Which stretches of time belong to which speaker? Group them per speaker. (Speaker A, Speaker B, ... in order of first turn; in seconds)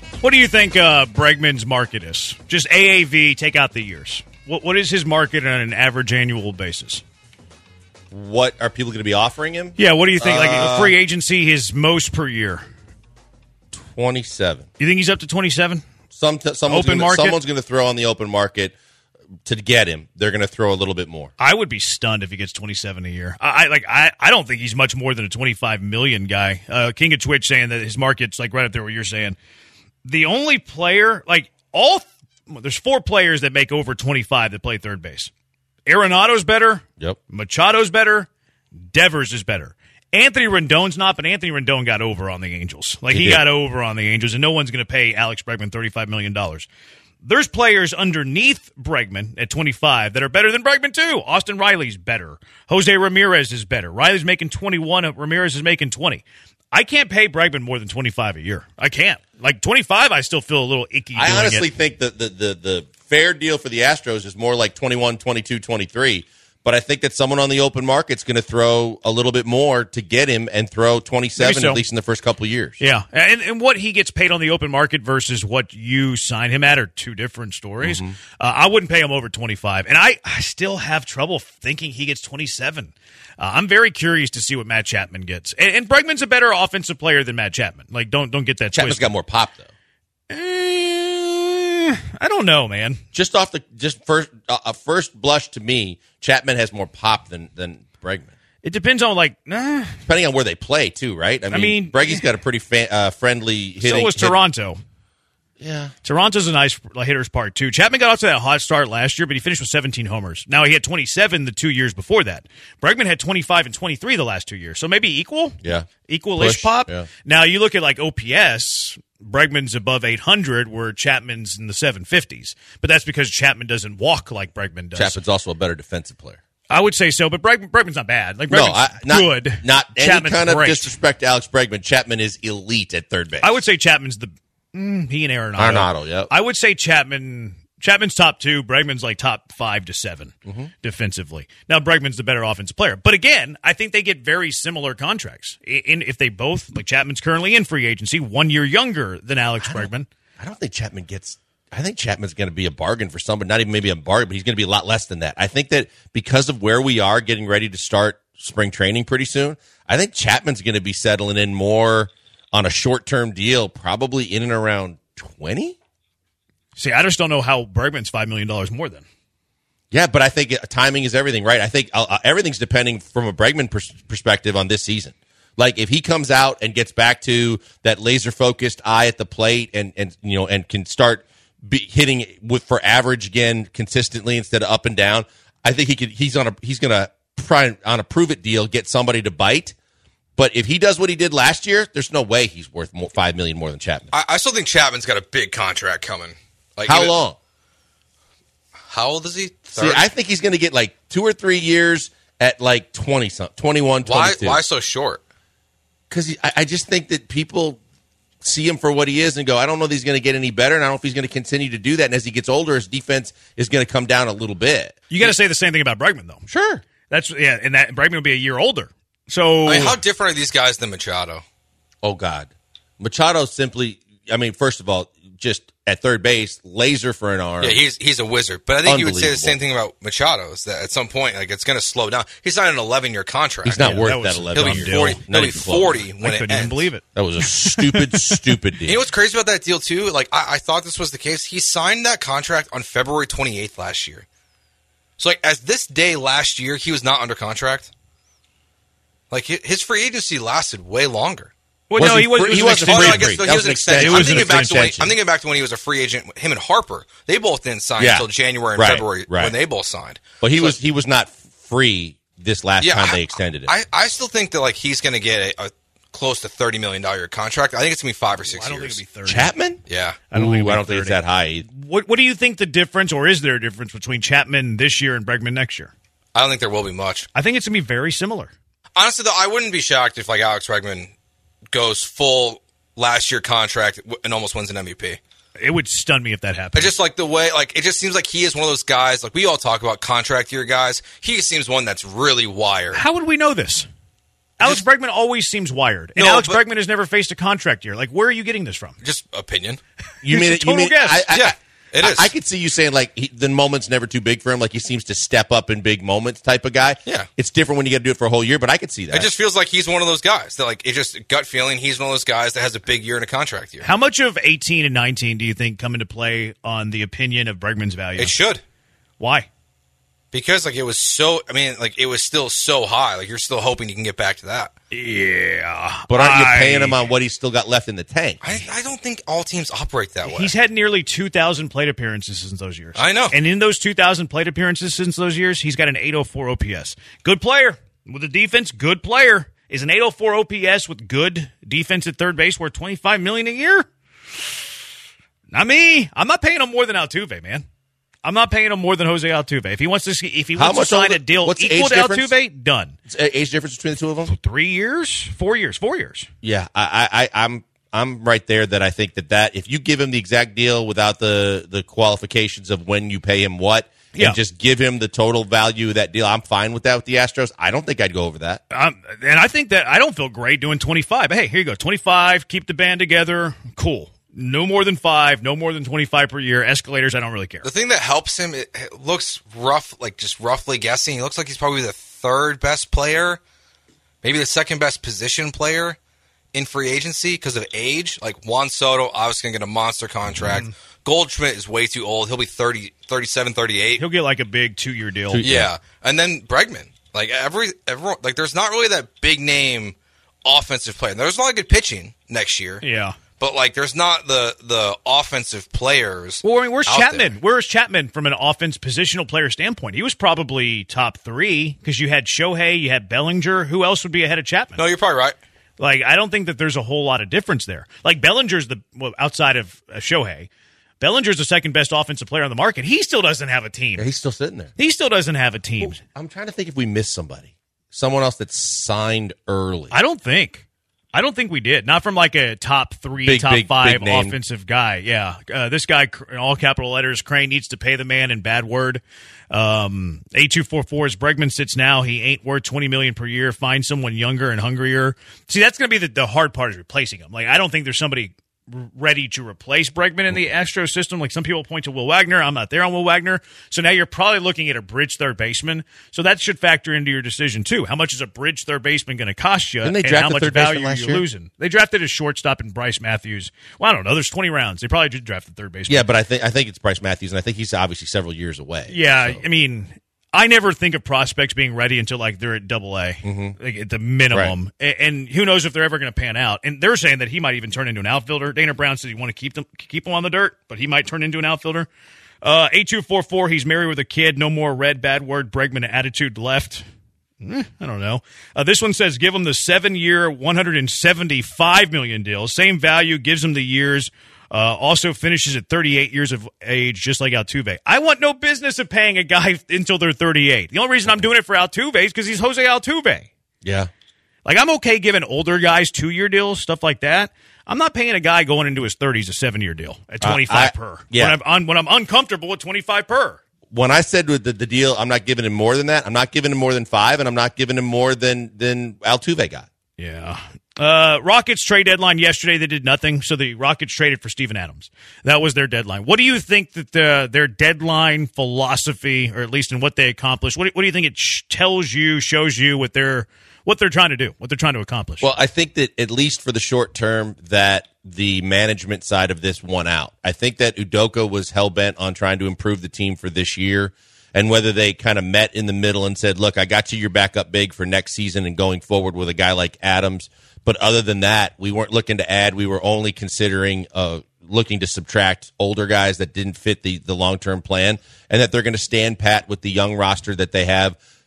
Speaker A: 0.2-7.0, 9.8-12.7, 14.8-15.8, 16.7-17.4, 21.4-29.4, 30.1-35.3, 35.9-38.3, 38.8-46.7, 47.2-61.7, 71.4-71.8, 72.8-89.1, 90.3-93.0, 98.6-100.0, 101.5-102.3, 103.8-104.8, 106.0-125.2, 126.7-130.9, 133.4-150.1, 166.8-169.0, 215.1-216.4, 217.1-220.0, 233.8-235.2, 236.2-238.4, 251.9-254.9, 268.4-269.5, 270.3-275.9, 277.3-278.5, 285.6-286.9, 292.9-293.9, 294.6-299.0, 300.3-301.3, 313.8-318.4, 319.2-319.5, 324.9-327.1, 330.2-343.9, 345.5-347.6, 348.2-353.0, 354.3-356.3, 368.7-377.7, 394.0-395.4, 402.8-403.2, 406.4-414.8, 415.8-420.5, 421.0-424.1, 424.8-426.0, 429.9-466.1, 468.9-481.9, 482.4-486.9, 487.4-503.3, 504.4-513.4, 520.0-535.3
Speaker B: 8.1-11.0, 13.7-14.7, 16.1-18.8, 19.4-21.3, 43.1-43.4, 61.1-72.8, 77.8-78.2, 88.7-89.7, 93.1-98.3, 100.1-104.4, 105.6-105.9, 115.6-117.1, 125.0-126.4, 128.5-133.6, 135.6-136.3, 140.4-140.7, 149.6-165.8, 169.9-189.8, 190.4-194.1, 196.9-197.4, 199.8-204.6, 206.1-207.8, 208.4-215.3, 216.5-216.8, 222.0-227.8, 228.8-229.6, 233.6-236.0, 237.2-239.0, 252.0-255.1, 258.0-259.6, 260.4-263.7, 269.3-269.8, 270.3-271.6, 300.2-309.3, 326.1-328.6, 350.6-352.4, 353.1-354.3, 356.4-368.6, 395.3-395.7, 424.0-424.7, 425.8-429.9, 433.2-434.4, 459.8-461.2, 465.9-469.4, 473.2-473.6, 503.6-503.9, 510.2-511.4, 513.7-519.7, 535.2-561.0
Speaker C: 194.1-197.2, 198.9-200.1, 204.1-205.2, 219.7-221.4, 227.6-233.9, 234.5-236.9, 238.9-244.3, 245.2-247.9, 249.3-251.5, 252.8-260.8, 262.8-269.0, 269.9-270.2, 276.4-277.3, 279.0-281.1, 281.7-285.2, 286.7-293.0, 296.2-296.6, 299.0-299.8, 301.3-302.3, 309.1-313.9, 318.2-318.6, 320.3-324.7, 328.4-330.5, 333.0-333.4, 377.6-383.4, 384.2-386.0, 386.5-394.0, 395.4-402.8, 403.4-407.3, 414.8-415.4